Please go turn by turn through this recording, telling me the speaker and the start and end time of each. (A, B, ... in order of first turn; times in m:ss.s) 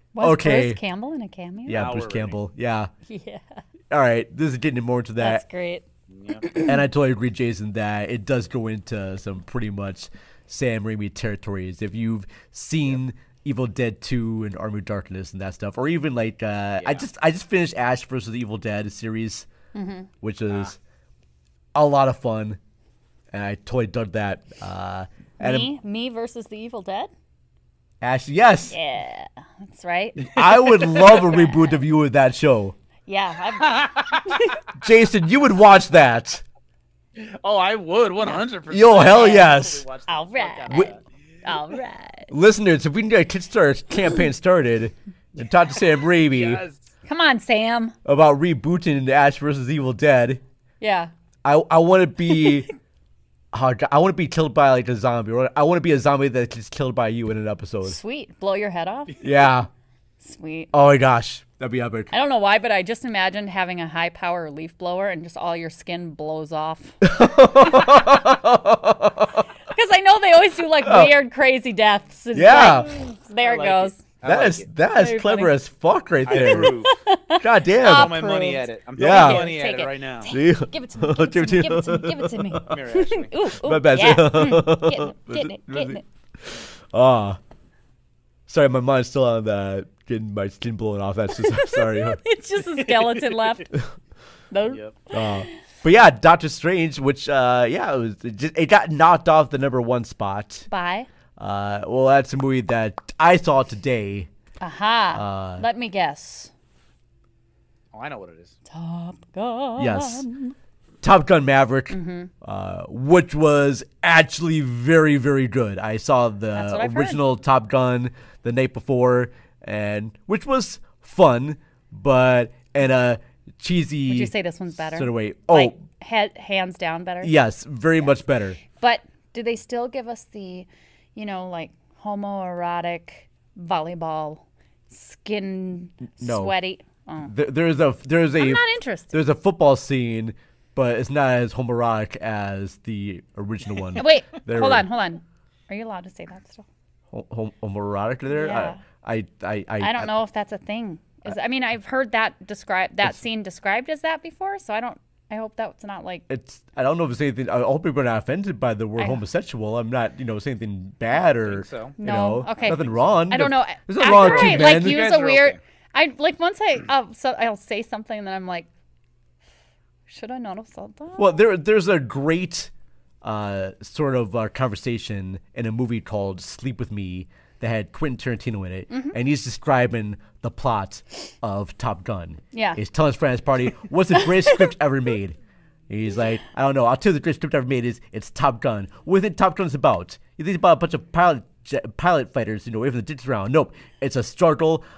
0:00.1-0:01.9 A
0:00.2-0:00.8 B
0:01.7-0:02.9 B
0:01.7-0:02.4 C
0:03.1-0:03.6 A
0:03.9-0:05.4 B
0:05.2-0:05.8 A
0:06.1-0:06.4 C
0:06.4-0:06.8 A
0:06.6-0:19.5 B
0:16.8-0:17.0 C
0:19.7-0:20.1 A
0:20.2-0:20.8 B
0:21.7-0:22.6 B
0:23.3-0:25.7 B
0:25.4-0:27.1 A
0:28.0-0:28.8 B
0:28.7-0:31.7 A
0:30.3-0:32.7 B
0:30.4-0:31.0 C
0:33.1-0:34.6 A
0:33.6-0:34.4 C
0:34.8-0:36.4 B
0:37.2-0:41.0 C
0:38.7-0:39.8 B
0:39.0-0:39.5 A
0:40.1-0:40.9 A
0:41.4-0:42.3 A
0:42.3-0:46.6 B
0:46.1-0:46.9 C
0:47.0-0:47.9 A
0:48.0-0:50.4 B
0:50.8-0:51.1 A
0:51.4-0:52.7 B
0:52.3-0:52.7 A
0:53.5-0:58.0 B
0:57.8-0:59.2 A
0:59.2-0:59.7 B
1:00.2-1:00.7 A
1:00.7-1:02.1 B
1:02.1-1:07.0 A
1:07.0-1:09.4 B
1:07.6-1:08.1 A
1:09.7-1:14.0 A
1:10.8-1:11.1 B
1:12.3-1:12.9 B
1:12.6-1:14.7 C
1:14.2-1:16.7 B
1:14.9-1:15.5 A
1:16.3-1:16.9 C
1:16.3-1:26.0 A
1:17.4-1:18.2 B
1:17.8-1:20.3 C
1:19.0-1:19.5 B
1:20.3-1:22.7 B
1:22.7-1:23.3 C
1:23.6-1:27.4 B
1:28.5-1:32.2 B
1:31.3-1:33.7 A
1:32.8-1:33.5 C
1:34.5-1:35.5 A
1:34.7-1:34.9 C
1:35.1-1:40.7 B
1:40.7-1:41.1 A
1:41.4-1:44.3 B
1:44.6-1:46.5 A
1:45.1-1:45.6 B
1:47.9-1:48.6 C
1:48.7-1:50.5 A
1:49.8-1:50.3 B
1:51.0-2:04.3 B
1:51.9-1:52.3 A
1:56.5-1:57.2 A
2:04.1-2:07.3 A
2:04.9-2:05.8 B
2:07.2-2:08.6 B
2:08.0-2:17.3 A
2:16.2-2:16.5 B
2:17.2-2:24.8 B
2:18.3-2:19.2 A
2:24.0-2:26.6 A
2:27.1-2:30.1 B
2:28.3-2:28.8 A
2:29.8-2:36.2 A
2:36.3-2:45.0 B
2:39.0-2:39.2 A
2:41.2-2:42.0 C
2:42.0-2:48.7 A
2:42.6-2:43.2 C
2:44.0-2:45.6 C
2:50.1-2:51.4 A
2:51.2-2:52.7 B
2:53.2-3:05.4 B
2:58.9-2:59.2 A
3:02.5-3:02.8 A
3:04.2-3:04.7 A
3:05.9-3:14.8 B